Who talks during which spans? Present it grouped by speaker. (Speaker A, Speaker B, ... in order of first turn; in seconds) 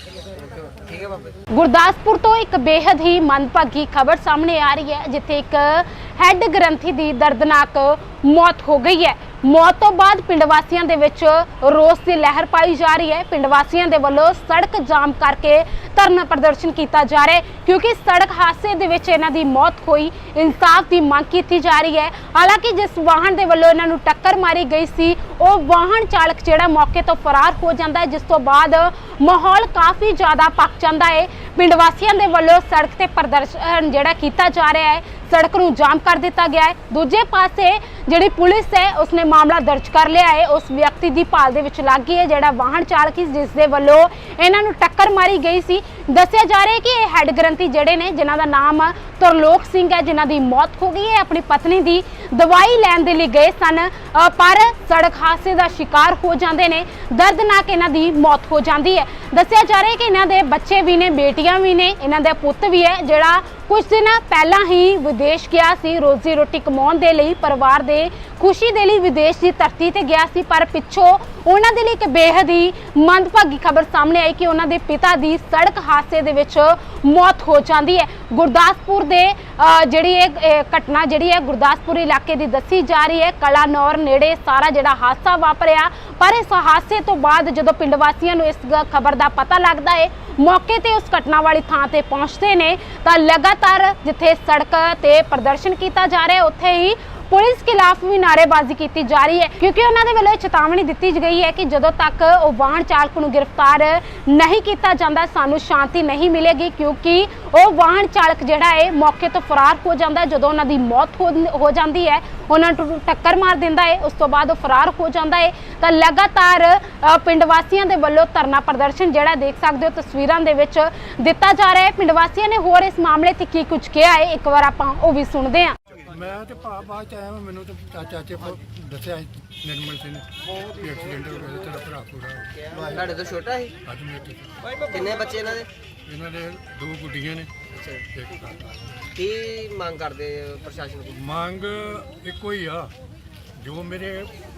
Speaker A: 0.3-1.4, 132.8-133.8, 134.9-135.7, 137.7-138.1, 139.2-141.2
Speaker B: 1.5-125.8
Speaker C: 126.1-132.5, 133.8-134.7, 136.1-137.5, 138.1-138.9, 141.1-142.9, 143.6-144.3